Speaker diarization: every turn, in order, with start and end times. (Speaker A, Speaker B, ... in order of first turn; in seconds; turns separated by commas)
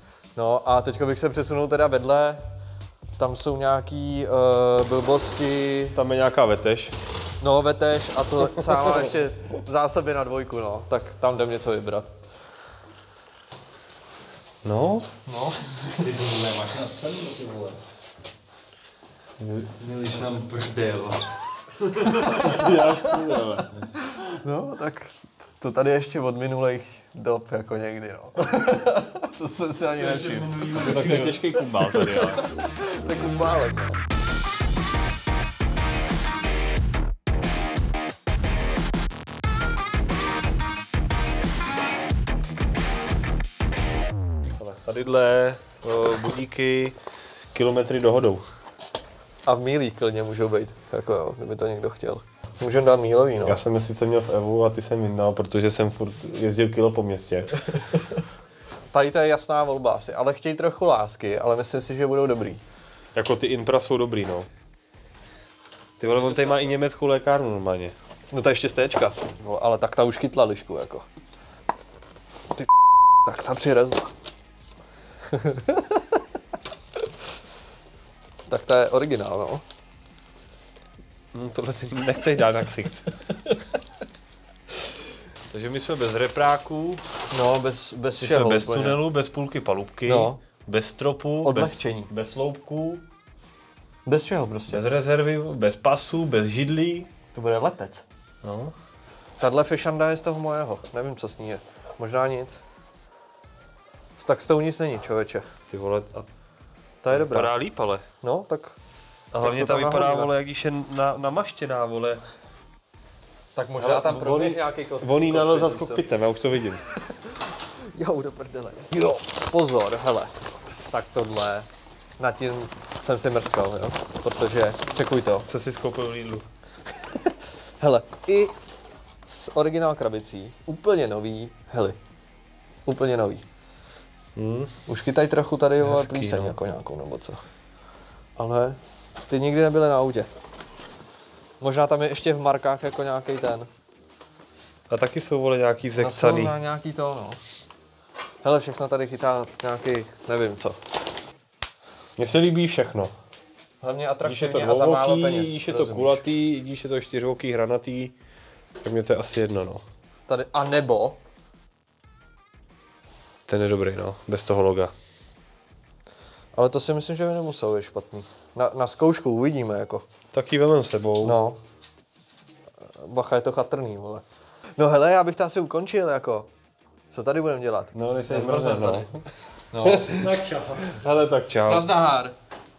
Speaker A: 0.3-2.4, Speaker A: 3.2-6.0, Speaker B: 6.0-7.0, Speaker A: 7.4-12.1, Speaker B: 8.6-9.0, Speaker B: 14.6-15.1, Speaker A: 15.3-15.9, Speaker B: 16.0-17.8, Speaker B: 19.4-23.9, Speaker A: 22.1-23.4, Speaker A: 24.0-34.0, Speaker B: 30.0-32.4, Speaker B: 44.6-47.0, Speaker B: 47.5-48.4, Speaker A: 49.5-53.6, Speaker B: 53.5-57.9, Speaker A: 58.9-62.6, Speaker B: 63.1-64.5, Speaker B: 66.0-67.9, Speaker A: 68.3-71.0, Speaker A: 73.2-74.1, Speaker A: 75.3-76.0, Speaker A: 78.5-79.6, Speaker B: 81.3-83.1, Speaker B: 85.5-87.0, Speaker A: 87.3-89.0, Speaker B: 88.2-93.0, Speaker A: 90.1-90.4, Speaker A: 91.4-92.1, Speaker A: 94.0-94.8, Speaker B: 94.7-97.1, Speaker A: 97.3-98.0, Speaker B: 98.4-98.7, Speaker A: 99.4-102.6, Speaker A: 104.2-105.5, Speaker B: 105.7-106.3, Speaker A: 107.0-107.5, Speaker B: 107.1-108.0, Speaker A: 108.2-108.8, Speaker B: 109.3-112.2, Speaker A: 109.4-110.3, Speaker A: 113.5-116.0, Speaker B: 113.8-116.8, Speaker A: 116.8-121.7, Speaker A: 122.2-125.5, Speaker B: 125.5-126.5, Speaker A: 127.0-128.5, Speaker A: 129.3-132.0, Speaker A: 132.9-133.4, Speaker B: 134.4-134.7, Speaker A: 134.9-137.4, Speaker B: 135.8-136.6, Speaker A: 138.4-140.3, Speaker A: 141.6-143.7, Speaker B: 144.9-146.6, Speaker A: 146.0-147.4, Speaker A: 148.4-150.8, Speaker B: 152.2-153.1, Speaker A: 153.8-156.2, Speaker B: 154.2-158.1, Speaker B: 158.8-159.8, Speaker A: 160.3-161.2, Speaker B: 163.5-164.9, Speaker A: 166.6-170.0, Speaker B: 170.3-171.4, Speaker A: 171.2-171.6, Speaker A: 172.8-176.5, Speaker A: 177.1-179.1, Speaker B: 177.9-179.2, Speaker A: 179.7-180.3, Speaker B: 179.8-181.9, Speaker A: 181.7-182.3